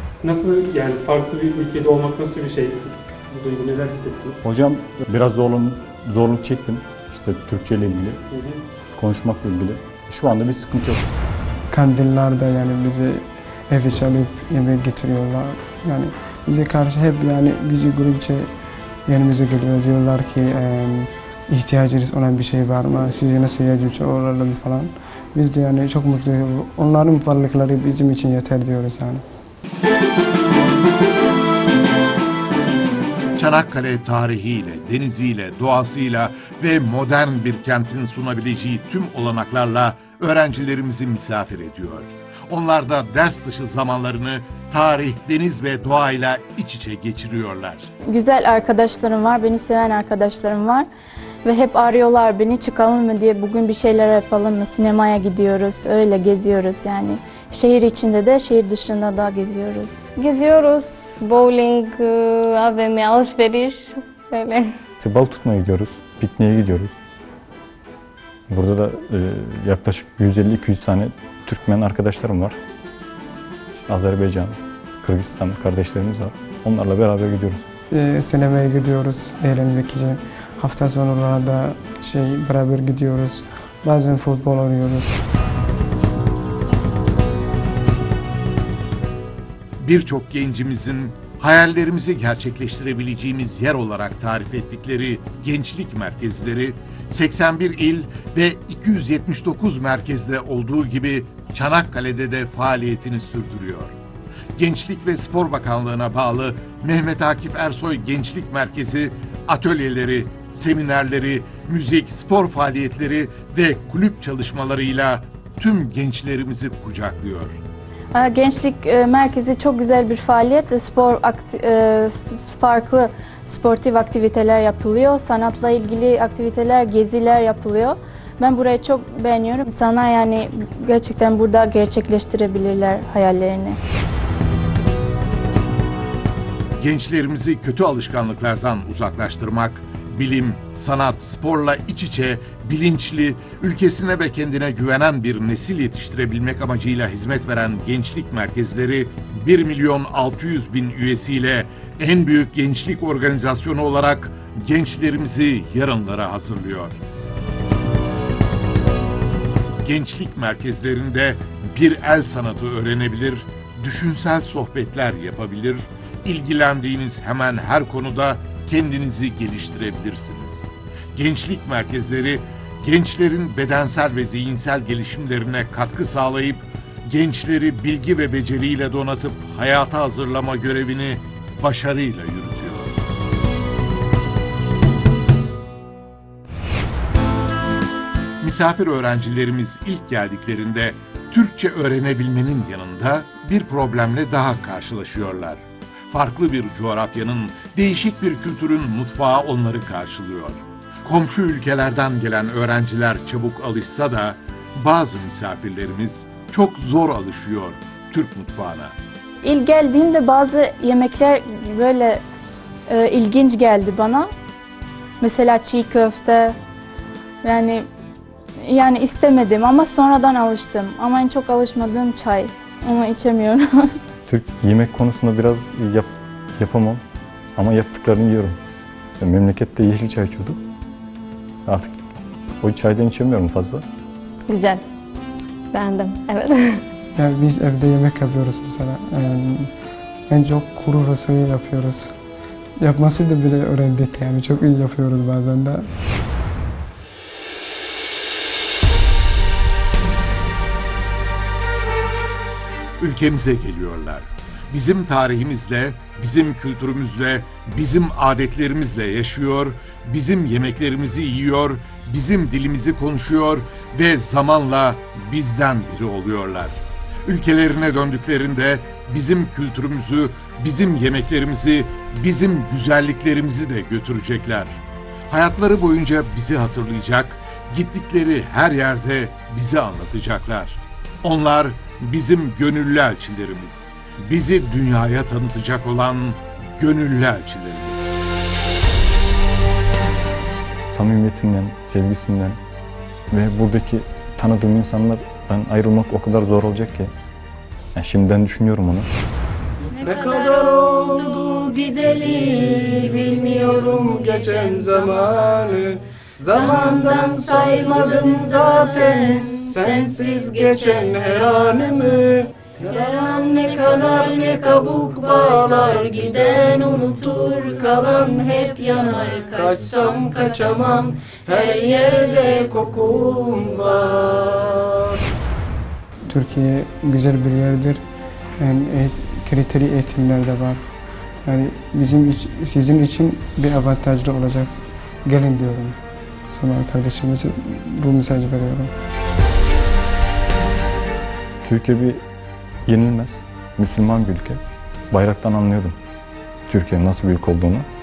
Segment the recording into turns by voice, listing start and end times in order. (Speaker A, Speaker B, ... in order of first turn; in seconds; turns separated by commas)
Speaker A: 0.2-4.3, Speaker B: 4.4-8.2, Speaker B: 8.9-11.0, Speaker C: 11.7-18.5, Speaker C: 19.1-29.2, Speaker D: 33.4-47.9, Speaker E: 48.1-50.9, Speaker E: 51.4-60.1, Speaker F: 60.2-64.7, Speaker B: 65.0-67.0, Speaker B: 68.5-72.6, Speaker B: 73.7-77.7, Speaker C: 77.9-85.2, Speaker D: 89.8-104.0, Speaker D: 104.6-117.6, Speaker E: 118.1-133.8, Speaker D: 136.8-157.0, Speaker D: 159.8-182.9, Speaker D: 188.4-208.9, Speaker E: 209.4-212.2, Speaker E: 212.9-214.3, Speaker E: 215.2-216.6, Speaker E: 217.4-217.8, Speaker E: 218.6-223.9, Speaker B: 224.3-227.0, Speaker B: 227.6-228.6, Speaker B: 229.2-230.6, Speaker B: 231.7-232.0, Speaker B: 232.6-233.8, Speaker F: 234.5-234.8, Speaker F: 235.7-236.8, Speaker C: 237.2-239.7, Speaker C: 240.3-242.1, Speaker C: 242.8-245.8, Speaker D: 253.0-288.1, Speaker B: 290.9-292.6, Speaker B: 293.3-297.1, Speaker B: 297.9-299.1, Speaker G: 300.0-301.0, Speaker C: 300.1-300.6, Speaker C: 301.2-301.6, Speaker G: 301.9-305.2, Speaker A: 303.1-303.6, Speaker C: 305.5-305.9, Speaker G: 306.5-312.3, Speaker A: 307.1-307.6, Speaker G: 312.9-323.5, Speaker G: 324.3-324.6, Speaker C: 326.3-328.0, Speaker C: 328.6-330.9, Speaker C: 331.4-334.7, Speaker C: 335.2-336.0, Speaker C: 336.5-338.9, Speaker B: 341.6-342.2, Speaker B: 342.9-346.0, Speaker B: 346.7-347.9